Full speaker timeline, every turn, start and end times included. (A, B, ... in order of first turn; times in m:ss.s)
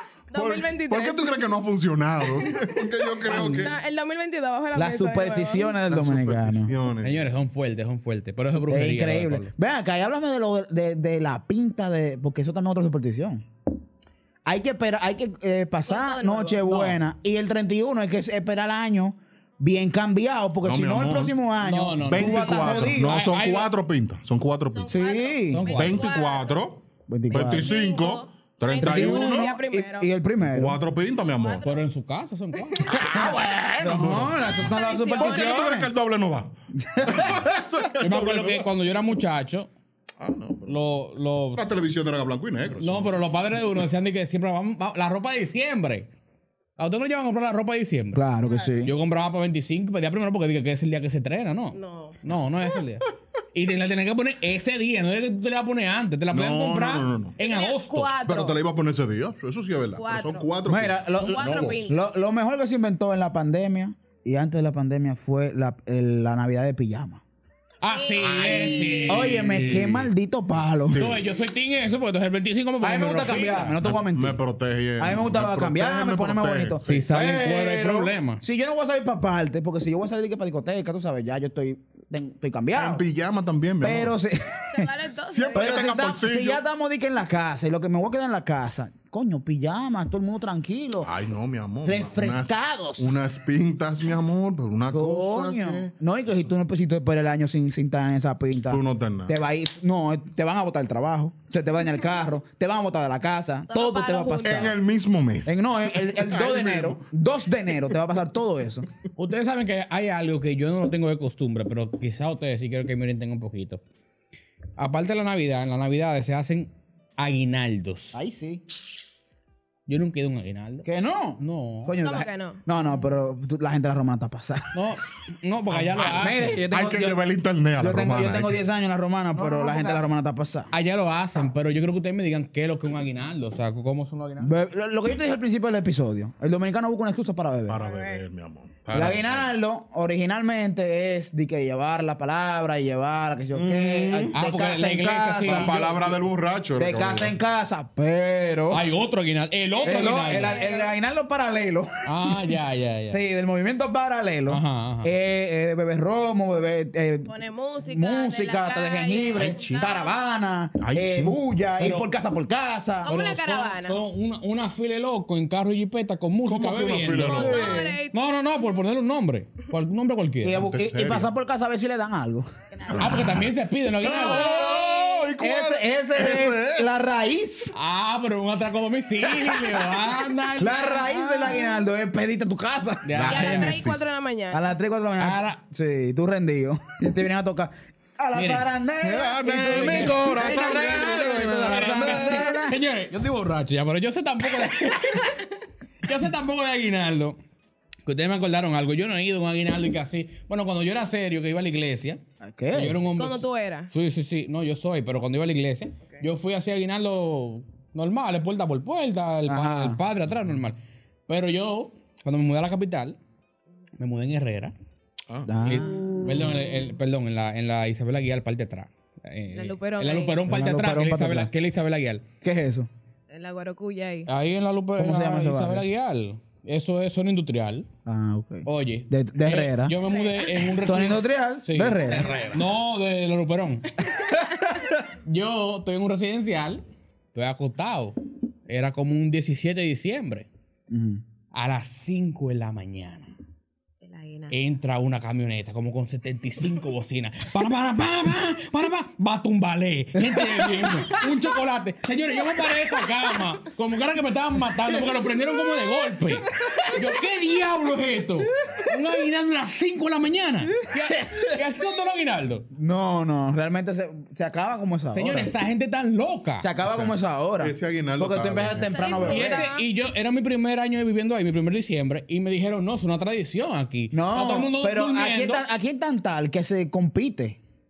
0:00.3-0:01.5 A
0:00.3-0:03.8 B
0:02.3-0:05.8 A
0:03.2-0:03.7 C
0:04.7-0:06.7 D
0:05.9-0:07.2 B
0:07.0-0:09.5 C
0:08.7-0:13.4 D
0:14.4-0:23.2 D
0:15.9-0:16.7 A
0:16.7-0:17.0 C
0:20.6-0:21.3 B
0:21.6-0:23.7 C
0:22.0-0:25.1 B
0:24.7-0:26.6 A
0:24.9-0:25.7 D
0:25.5-0:26.1 C
0:25.7-0:29.5 B
0:27.1-0:27.7 D
0:27.3-0:30.1 A
0:28.8-0:30.8 D
0:30.4-0:31.7 B
0:31.2-0:31.8 A
0:31.6-0:33.0 C
0:32.8-0:38.7 B
0:33.0-0:35.9 D
0:34.4-0:35.8 A
0:36.8-0:37.6 D
0:38.0-0:39.7 C
0:40.2-0:40.9 B
0:40.6-0:41.6 C
0:41.6-0:43.2 B
0:42.8-0:46.1 C
0:46.8-0:48.2 C
0:48.1-0:48.9 D
0:48.4-0:48.8 A
0:48.8-0:58.1 C
0:51.7-0:52.2 A
0:56.3-0:57.4 B
0:57.4-0:58.6 A
0:58.2-1:01.9 B
1:00.0-1:00.5 A
1:00.7-1:07.2 D
1:01.1-1:02.0 A
1:07.8-1:09.9 C
1:07.9-1:09.3 A
1:08.2-1:10.1 B
1:08.4-1:11.1 D
1:10.8-1:11.2 B
1:10.9-1:13.8 C
1:12.8-1:14.4 D
1:13.8-1:17.0 B
1:15.0-1:23.0 D
1:16.8-1:18.4 C
1:22.8-1:24.1 B
1:23.8-1:24.9 D
1:24.7-1:26.0 A
1:25.3-1:26.6 B
1:25.5-1:31.1 D
1:31.0-1:35.9 B
1:31.8-1:33.2 D
1:34.9-1:44.8 D
1:38.7-1:39.4 B
1:43.7-1:44.8 A
1:44.4-1:47.0 B
1:45.5-1:48.9 D
1:49.2-1:53.8 C
1:54.8-1:58.2 C
1:58.1-1:58.6 D
1:59.9-2:00.9 C
2:00.8-2:04.8 D
2:01.4-2:02.0 C
2:02.0-2:02.6 A
2:04.7-2:06.6 C
2:05.7-2:07.2 D
2:06.7-2:08.6 B
2:07.8-2:10.7 D
2:09.4-2:10.0 A
2:10.7-2:14.5 C
2:14.4-2:17.8 D
2:17.7-2:19.5 B
2:17.8-2:18.2 A
2:18.9-2:26.2 D
2:23.5-2:24.4 B
2:24.3-2:26.0 C
2:25.4-2:27.3 B
2:26.8-2:28.9 D
2:28.7-2:30.6 C
2:29.8-2:32.5 D
2:30.1-2:31.0 A
2:32.0-2:33.2 C
2:33.1-2:43.1 D
2:34.5-2:35.1 C
2:37.3-2:40.1 A
2:39.3-2:39.9 B
2:40.8-2:41.4 B
2:41.8-2:42.1 C
2:43.0-2:44.0 A
2:43.0-2:50.7 C
2:46.4-2:47.8 B
2:47.2-2:48.2 A
2:47.2-2:48.0 D
2:50.4-2:52.5 D
2:50.6-2:51.3 B
2:52.9-2:53.5 B
2:53.0-2:54.5 C
2:54.0-2:55.3 A
2:54.0-2:54.5 D
2:54.0-2:56.9 B
2:55.4-2:57.7 D
2:57.7-3:01.4 C
2:59.4-2:59.7 D
3:00.6-3:03.8 D
3:01.0-3:01.8 A
3:03.0-3:03.7 C
3:03.1-3:04.1 B
3:03.2-3:04.7 A
3:04.5-3:12.8 D
3:05.2-3:05.6 C
3:08.3-3:08.7 C
3:09.0-3:12.6 B
3:09.7-3:10.3 C
3:11.6-3:15.4 C
3:16.0-3:17.4 C
3:18.0-3:33.2 C
3:22.4-3:23.0 D
3:23.2-3:23.9 A
3:29.5-3:30.0 D
3:34.0-3:34.8 C
3:35.5-3:36.6 D
3:35.6-3:42.2 C
3:39.5-3:40.4 A
3:40.5-3:41.5 D
3:42.4-3:42.9 D
3:43.3-3:44.3 A
3:44.3-3:47.9 C
3:45.0-3:45.9 D
3:48.1-3:50.0 D
3:48.6-3:53.9 C
3:50.1-3:51.0 A
3:50.8-3:52.4 D
3:52.0-3:52.6 B
3:55.2-4:00.5 C
4:00.9-4:01.2 D
4:01.5-4:03.3 C
4:04.0-4:04.6 A
4:04.5-4:22.7 C
4:10.2-4:11.2 D
4:21.1-4:21.6 D
4:22.7-4:25.5 D
4:25.1-4:26.7 C
4:26.6-4:29.7 D
4:26.8-4:29.5 B
4:28.8-4:29.9 A
4:29.2-4:35.6 C
4:34.1-4:37.6 D